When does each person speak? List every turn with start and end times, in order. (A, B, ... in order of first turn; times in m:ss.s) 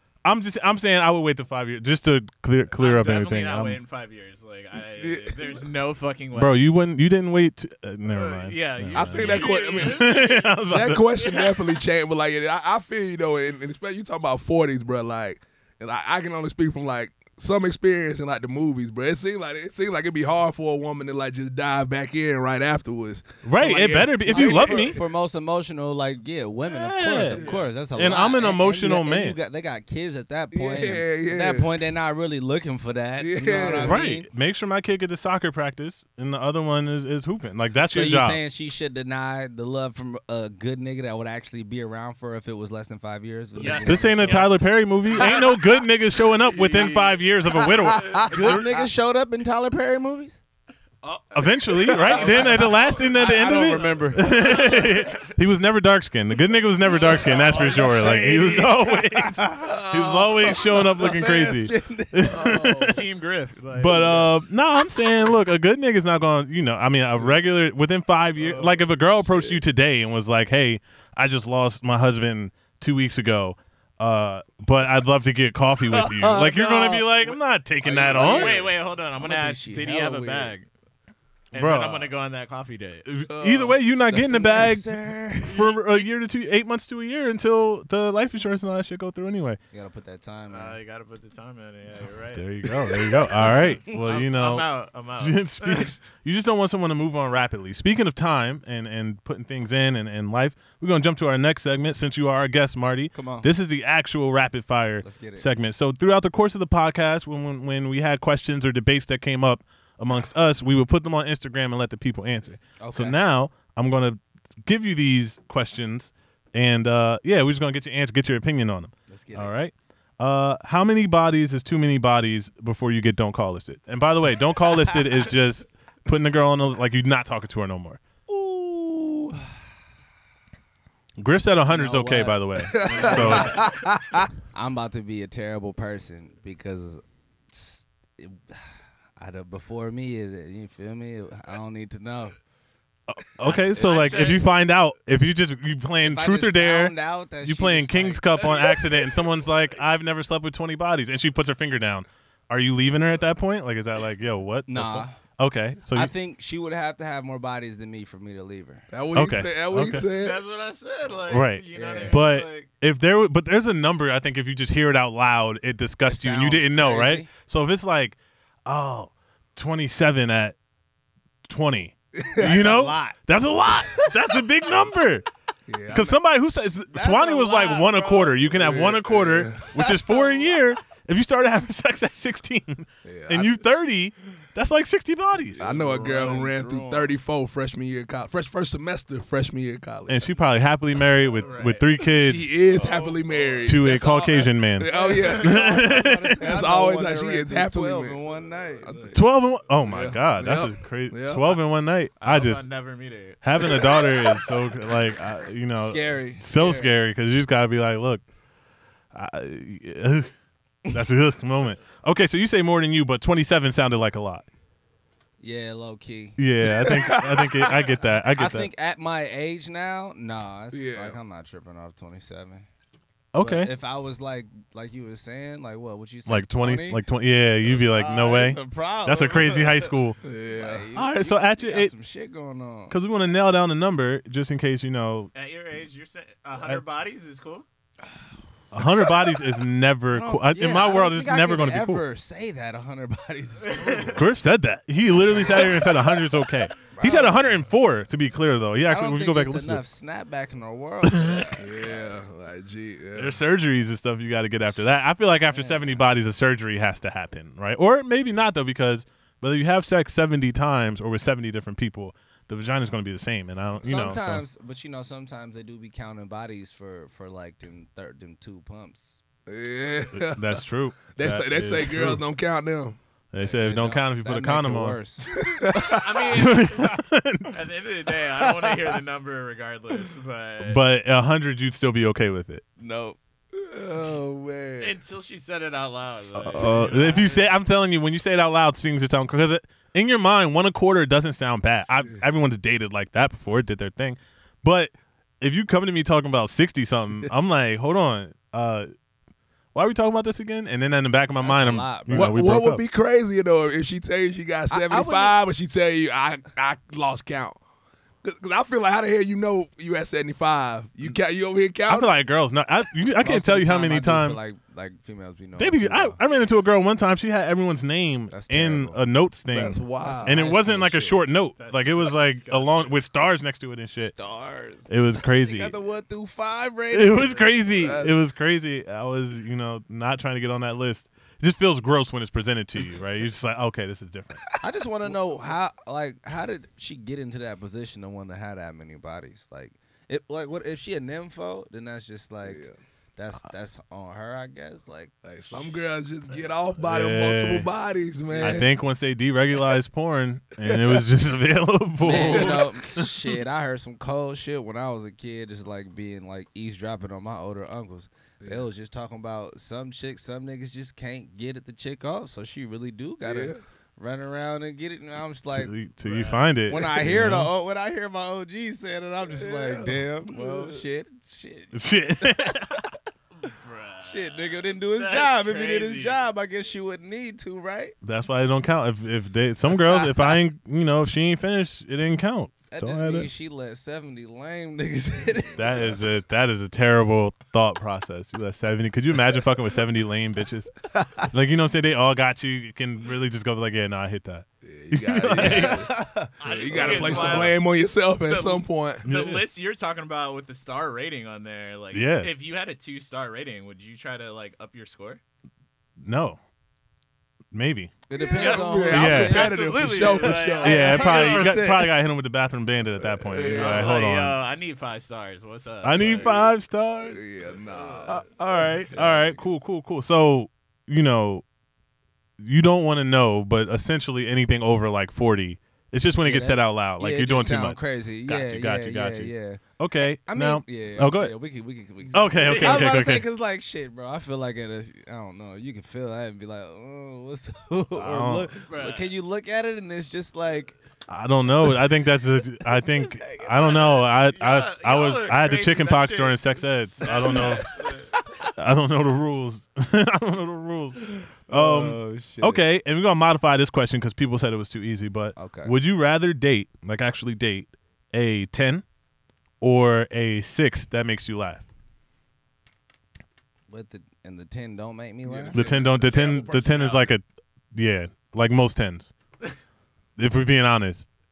0:00.2-0:03.8 A
0:02.8-0:06.6 B
0:05.0-0:05.6 C
0:06.3-0:11.1 A
0:08.1-0:10.6 B
0:08.9-0:24.9 C
0:11.1-0:11.8 B
0:23.4-0:25.0 A
0:24.2-0:34.3 D
0:26.7-0:29.4 A
0:27.3-0:27.6 C
0:30.5-0:31.6 C
0:33.2-0:34.0 C
0:33.8-0:38.4 A
0:37.9-0:44.5 D
0:43.6-0:45.6 B
0:43.6-0:48.6 A
0:46.3-0:48.3 B
0:48.3-0:50.4 D
0:51.0-0:55.2 B
0:51.3-1:03.0 A
0:51.9-0:54.8 D
0:56.8-0:59.8 D
0:57.2-0:57.9 B
0:59.6-1:00.6 C
1:00.4-1:02.8 D
1:02.3-1:02.9 C
1:02.8-1:04.3 B
1:03.7-1:18.6 A
1:15.9-1:17.1 D
1:17.8-1:18.7 C
1:18.1-1:20.7 B
1:18.2-1:18.6 D
1:19.2-1:20.5 D
1:21.5-1:22.1 A
1:21.5-1:23.1 B
1:23.0-1:29.6 A
1:23.3-1:23.8 C
1:24.1-1:25.6 D
1:25.6-1:26.0 B
1:29.7-1:30.8 D
1:30.5-1:35.9 B
1:32.3-2:08.0 A
1:43.1-1:43.5 D
1:45.0-1:45.5 D
1:52.8-1:53.2 D
1:59.1-1:59.5 D
2:08.3-2:09.6 D
2:11.2-2:13.6 A
2:11.7-2:13.8 D
2:12.7-2:14.3 C
2:13.0-2:13.4 B
2:14.4-2:22.4 D
2:23.1-2:36.1 A
2:23.4-2:24.4 B
2:26.0-2:28.8 D
2:34.7-2:35.2 D
2:35.9-2:38.8 D
2:38.9-2:40.4 C
2:39.1-2:40.0 A
2:40.0-2:42.7 B
2:41.3-2:50.6 A
2:41.7-2:42.2 D
2:46.0-2:47.3 D
2:51.4-2:55.2 A
2:52.1-2:52.8 C
2:52.4-2:53.2 D
2:55.7-2:56.2 C
2:55.9-3:05.7 A
2:56.9-2:58.8 D
2:58.5-2:59.7 C
2:59.7-3:00.6 D
3:03.0-3:03.8 C
3:05.6-3:10.3 C
3:05.6-3:07.2 D
3:10.1-3:12.6 A
3:11.3-3:11.8 B
3:12.1-3:18.2 C
3:12.7-3:13.7 B
3:13.6-3:16.5 A
3:14.9-3:19.2 D
3:18.8-3:19.1 C
3:19.1-3:22.6 A
3:19.8-3:21.6 C
3:22.2-3:23.9 B
3:23.4-3:28.2 A
3:25.8-3:26.8 D
3:26.6-3:26.8 C
3:29.1-3:30.3 A
3:30.9-3:34.4 A
3:35.4-3:37.2 D
3:36.4-3:38.7 A
3:36.8-3:37.5 C
3:38.3-3:42.7 D
3:40.7-3:41.2 C
3:43.3-3:43.7 A
3:43.4-3:47.0 D
3:46.3-3:50.2 A
3:47.6-3:49.9 D
3:50.2-3:50.9 C
3:50.5-3:53.0 D
3:50.9-3:51.9 A
3:52.9-3:55.3 A
3:55.3-3:57.6 B
3:58.7-4:02.0 A
4:00.1-4:04.2 D
4:03.6-4:04.1 B
4:04.1-4:09.8 A
4:05.4-4:05.7 D
4:06.9-4:07.6 D
4:08.9-4:12.0 D
4:11.6-4:13.4 C
4:13.1-4:24.4 A
4:15.5-4:16.0 D
4:23.8-4:29.2 D
4:29.4-4:30.6 C
4:30.1-4:32.2 A
4:31.1-4:33.0 C
4:33.3-4:35.0 A
4:33.4-4:36.1 D
4:35.3-4:36.3 C
4:35.8-4:37.0 B
4:36.3-4:37.6 A
4:37.5-4:40.8 B
4:38.4-4:38.9 D
4:40.6-4:42.6 A
4:42.8-4:43.2 D
4:43.5-4:45.0 C
4:44.8-4:47.5 B
4:46.3-4:58.9 A
4:59.7-5:02.8 A
5:01.4-5:02.4 D
5:02.1-5:07.6 C
5:04.7-5:05.4 D
5:08.2-5:12.1 C
5:11.9-5:14.4 A
5:13.2-5:16.2 D
5:15.6-5:24.1 A
5:18.3-5:19.0 D
5:19.5-5:20.5 C
5:20.0-5:21.2 D
5:21.6-5:23.0 B
5:24.0-5:28.0 D
5:24.9-5:25.7 A
5:26.9-5:34.4 A
5:27.8-5:28.2 C
5:34.6-5:42.6 D
5:42.4-5:42.7 C
5:43.2-5:45.8 D
5:45.2-5:48.7 C
5:46.8-5:47.7 A
5:48.3-5:48.7 D
5:48.4-5:53.1 A
5:50.6-5:51.0 C
5:52.0-6:05.7 D
5:52.1-5:52.7 C
6:03.2-6:03.6 C
6:05.5-6:07.5 A
6:06.0-6:06.5 B
6:06.7-6:12.9 D
6:09.4-6:10.8 C
6:11.7-6:12.9 A
6:13.4-6:16.2 B
6:14.0-6:17.9 D
6:18.0-6:23.3 A
6:22.7-6:26.0 D
6:25.5-6:35.9 A
6:34.6-6:39.0 C
6:35.3-6:37.5 D
6:36.4-6:37.6 B
6:36.7-6:37.5 A
6:38.2-6:45.2 B
6:39.0-6:39.4 A
6:41.9-6:42.3 A
6:46.0-6:46.4 A
6:47.5-6:47.9 A
6:48.1-6:50.9 C
6:48.1-6:51.9 D
6:48.3-6:51.7 B
6:48.9-6:49.5 A
6:50.6-6:54.4 A
6:53.2-6:53.9 C
6:53.4-6:56.4 B
6:55.8-6:57.2 A
6:57.1-6:58.2 C
6:57.6-6:58.1 B
6:58.0-7:01.4 A
7:02.4-7:11.3 A
7:06.2-7:20.8 D
7:12.1-7:13.2 A
7:12.3-7:12.9 B
7:17.9-7:18.5 A
7:18.7-7:19.1 B
7:21.1-7:27.7 A
7:22.7-7:23.8 D
7:23.4-7:28.1 B
7:27.2-7:28.4 D
7:28.5-7:38.8 A
7:31.5-7:32.6 D
7:35.4-7:35.7 D
7:39.6-7:41.6 A
7:43.7-7:45.6 D
7:45.2-7:47.1 C
7:45.5-7:49.1 A
7:50.2-7:51.1 A